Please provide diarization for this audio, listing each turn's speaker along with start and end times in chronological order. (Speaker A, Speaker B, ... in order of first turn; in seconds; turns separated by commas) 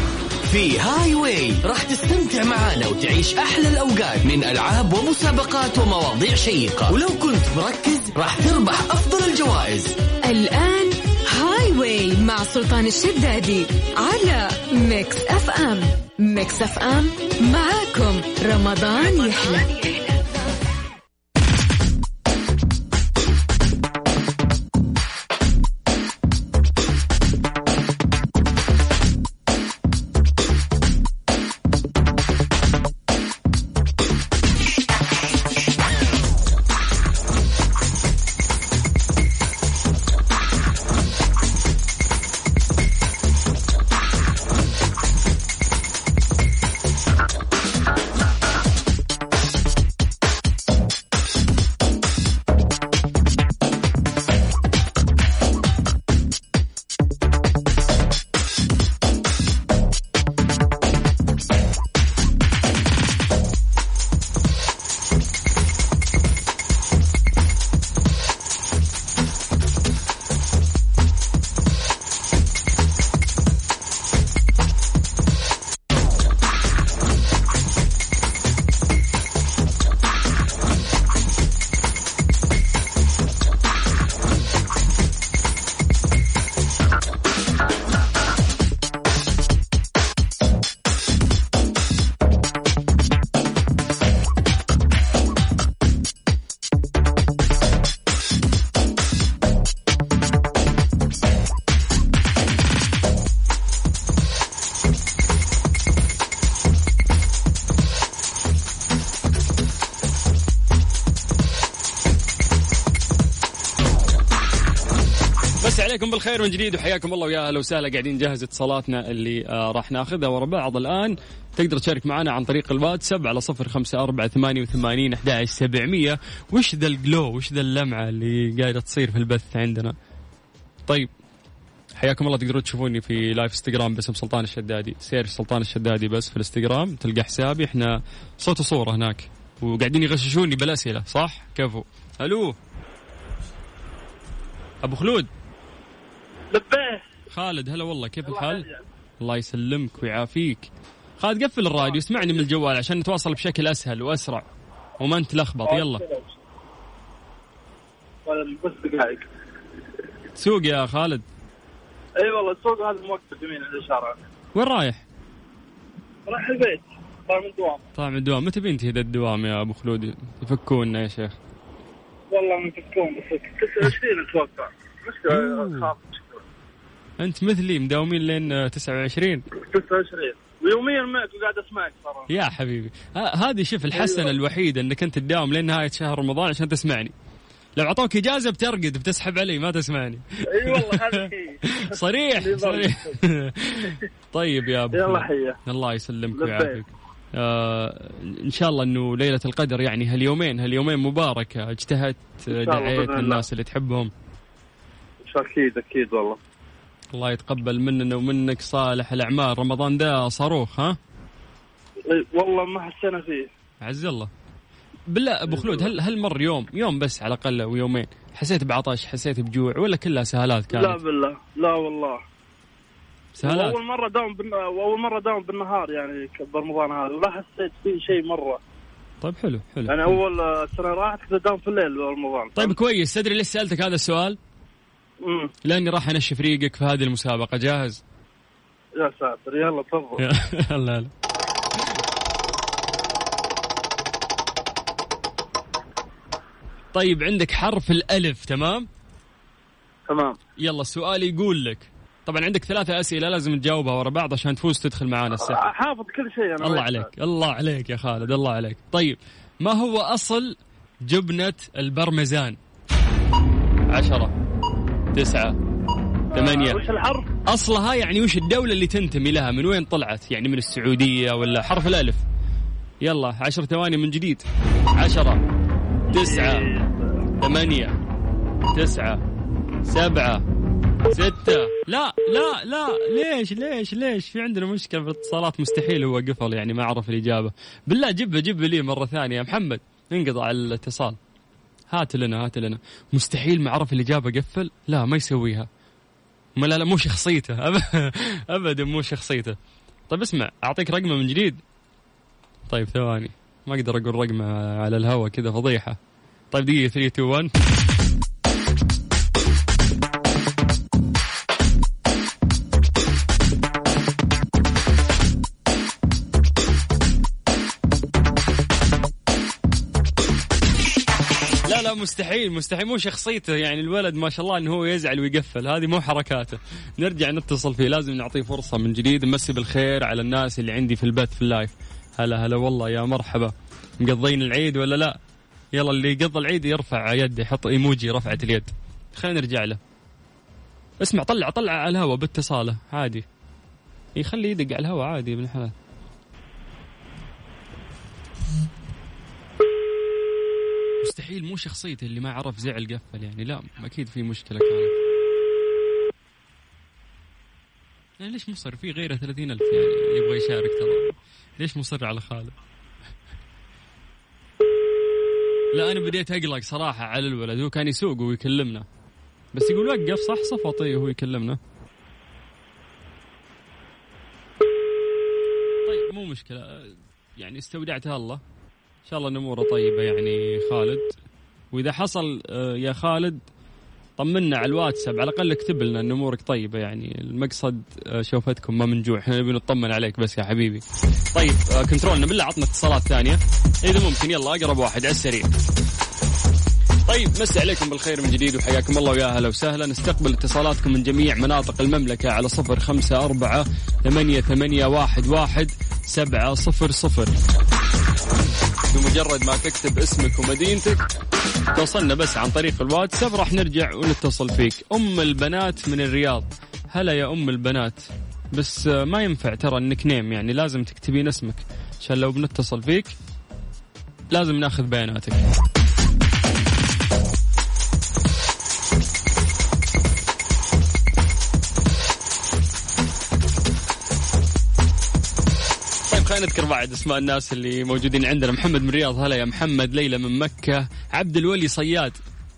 Speaker A: 0.5-9.9, Speaker B: 10.2-19.9, Speaker C: 115.6-129.9, Speaker C: 132.0-142.6, Speaker C: 144.8-145.3, Speaker D: 146.5-147.1, Speaker C: 147.3-148.7, Speaker D: 148.3-148.8, Speaker C: 149.2-154.4, Speaker D: 151.9-152.3, Speaker C: 155.0-156.0, Speaker D: 155.7-156.3, Speaker D: 158.3-159.2, Speaker C: 160.3-161.2, Speaker D: 162.2-164.2, Speaker C: 164.5-165.0, Speaker D: 166.3-167.8, Speaker C: 167.9-171.4, Speaker D: 172.3-176.4, Speaker C: 175.3-175.9, Speaker C: 177.2-179.4, Speaker D: 179.7-182.3, Speaker C: 182.3-187.1, Speaker D: 183.9-184.3, Speaker C: 187.8-204.1, Speaker D: 190.5-193.2, Speaker D: 194.9-195.6, Speaker D: 196.3-196.8, Speaker D: 202.5-203.4, Speaker D: 205.2-206.4, Speaker C: 207.1-211.0, Speaker D: 212.1-213.5, Speaker C: 213.8-214.3, Speaker C: 215.1-221.0, Speaker D: 215.5-215.9, Speaker D: 220.7-222.2, Speaker C: 223.3-223.8, Speaker D: 223.4-228.6, Speaker C: 229.2-230.2, Speaker D: 229.9-232.8, Speaker C: 232.6-234.4, Speaker D: 235.2-235.5, Speaker C: 235.6-238.0, Speaker D: 239.0-240.2, Speaker C: 240.2-241.1, Speaker C: 246.9-248.9, Speaker D: 250.1-250.4, Speaker C: 250.6-255.7, Speaker D: 255.4-257.1, Speaker C: 256.6-262.6, Speaker C: 263.9-264.3, Speaker C: 265.1-265.6, Speaker D: 266.3-267.3, Speaker C: 266.3-266.9, Speaker C: 267.4-272.2, Speaker C: 273.0-275.4, Speaker C: 276.1-276.7, Speaker D: 276.1-277.2, Speaker C: 277.4-277.9, Speaker C: 278.7-279.2, Speaker C: 279.9-280.4, Speaker C: 281.1-291.2, Speaker C: 291.9-295.7, Speaker C: 296.6-299.6, Speaker C: 300.1-301.6, Speaker C: 302.7-306.0, Speaker C: 306.5-307.5, Speaker C: 321.7-335.2, Speaker C: 335.7-339.8, Speaker C: 341.0-343.2, Speaker C: 344.2-345.7, Speaker C: 351.0-354.9, Speaker C: 358.2-362.5, Speaker C: 365.7-368.9, Speaker C: 369.5-371.6, Speaker C: 375.9-378.4, Speaker C: 379.1-381.2, Speaker C: 381.7-383.4, Speaker C: 384.2-390.8, Speaker C: 391.3-395.5, Speaker C: 397.1-407.4, Speaker C: 408.9-411.0, Speaker C: 411.7-423.1, Speaker C: 424.3-425.4, Speaker C: 436.1-442.2